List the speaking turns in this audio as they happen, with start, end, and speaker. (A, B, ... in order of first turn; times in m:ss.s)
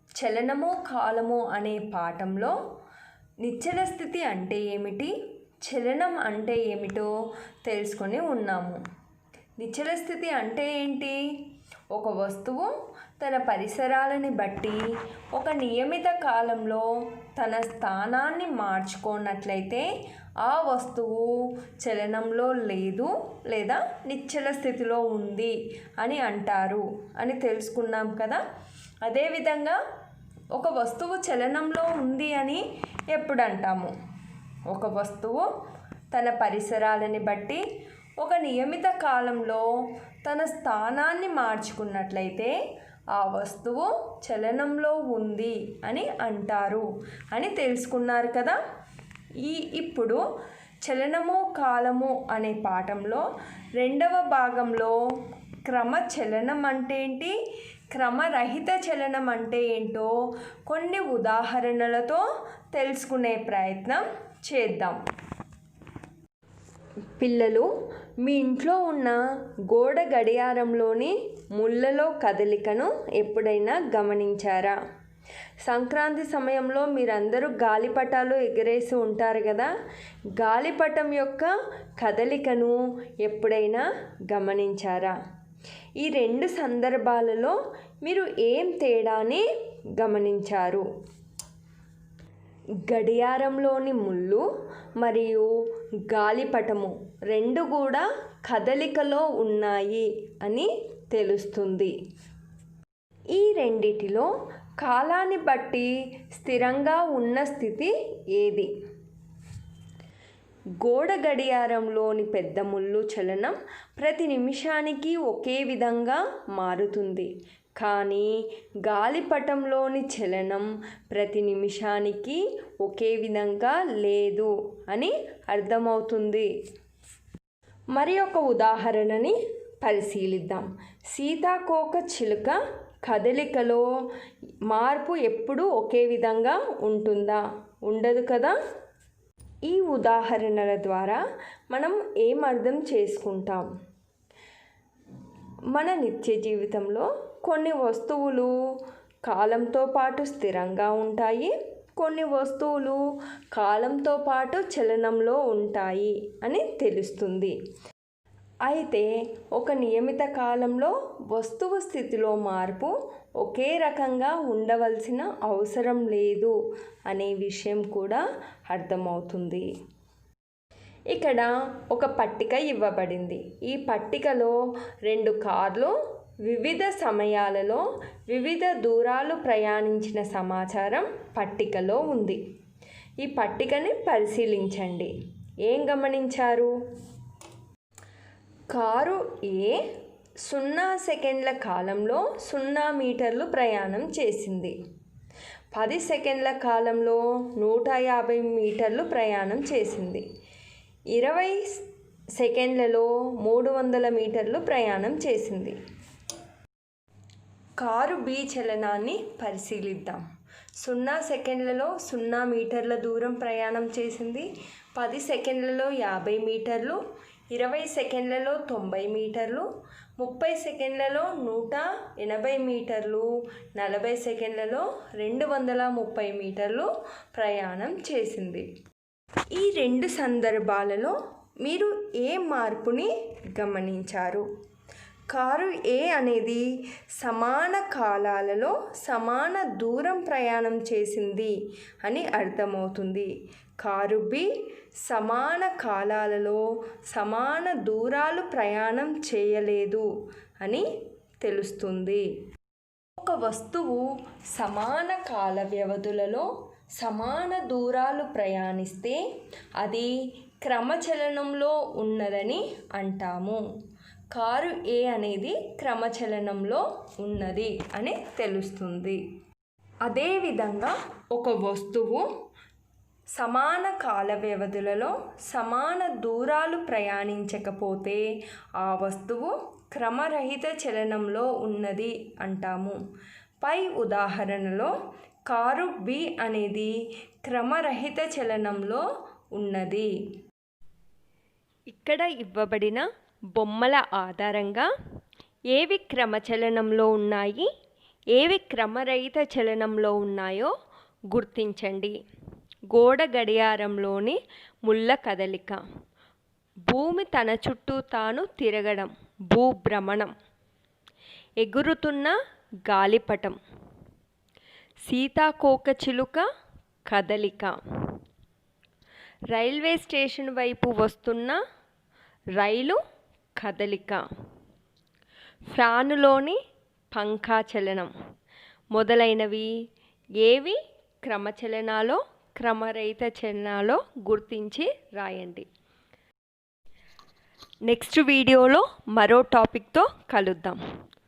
0:00.2-0:02.6 A
0:03.4-0:05.1 A
0:05.6-0:07.1 A
0:07.6-0:08.8 A
0:09.6-0:11.2 A
0:11.9-0:14.8 A
0:15.3-0:19.9 A
0:20.4-0:28.4 A
0:29.0-0:29.8 A
0:30.5-0:33.9 A
0:34.7-0:35.5 A
0:36.1-0:37.6 A
0:38.2-0:39.7 A
0:40.2-0:42.6 A
0:43.1-0:48.6 A
0:49.4-0:50.2 A
0:50.8-0:53.3 A
0:53.8-0:55.0 A
0:55.7-0:57.3 A
0:57.9-1:00.1 A
1:00.7-1:05.0 A
1:07.2-1:07.7 A
1:08.2-1:09.2 A
1:09.7-1:14.8 A
1:15.6-1:19.7 A
1:20.4-1:25.2 A
1:26.0-1:29.4 A
1:30.0-1:30.8 A
1:32.9-1:34.5 A
1:35.0-1:35.5 A
1:36.1-1:41.9 A
1:43.3-1:48.7 A
1:50.8-1:58.3 A
1:58.8-2:06.5 A
2:07.9-2:13.8 A
2:14.7-2:18.6 A
2:19.7-2:23.7 A
2:25.7-2:28.5 A
2:29.3-2:33.0 A
2:33.5-2:37.5 A
2:38.6-2:46.6 A
2:47.1-2:49.7 A
2:51.1-3:02.4 A
3:03.2-3:05.1 A
3:05.7-3:06.7 A
3:08.7-3:09.8 A
3:10.4-3:14.8 A
3:15.7-3:20.2 A
3:21.1-3:21.8 A
3:22.4-3:25.8 A
3:27.8-3:30.2 A
3:30.8-3:37.0 A
3:37.5-3:39.7 A
3:40.2-3:48.7 A
3:49.5-3:54.5 A
3:55.3-3:56.6 A
3:57.2-4:03.3 A
4:03.8-4:04.5 A
4:05.1-4:10.1 A
4:10.6-4:10.9 A
4:11.4-4:12.3 A
4:13.2-4:19.2 A
4:19.8-4:20.1 A
4:20.6-4:23.6 A
4:24.3-4:29.2 A
4:30.0-4:32.3 A
4:33.3-4:38.3 A
4:38.8-4:43.0 A
4:43.6-4:44.9 A
4:45.5-4:50.1 A
4:51.9-4:54.9 A
4:55.7-4:57.7 A
4:58.3-5:00.7 A
5:01.3-5:02.2 A
5:02.9-5:05.8 A
5:06.9-5:10.3 A
5:11.6-5:12.3 A
5:12.8-5:13.6 A
5:15.1-5:16.4 A
5:17.1-5:17.8 A
5:19.5-5:21.6 A
5:22.6-5:23.0 A
5:23.6-5:24.2 A
5:25.7-5:26.6 A
5:27.1-5:28.1 A
5:28.9-5:29.7 A
5:30.4-5:35.7 A
5:37.9-5:40.8 A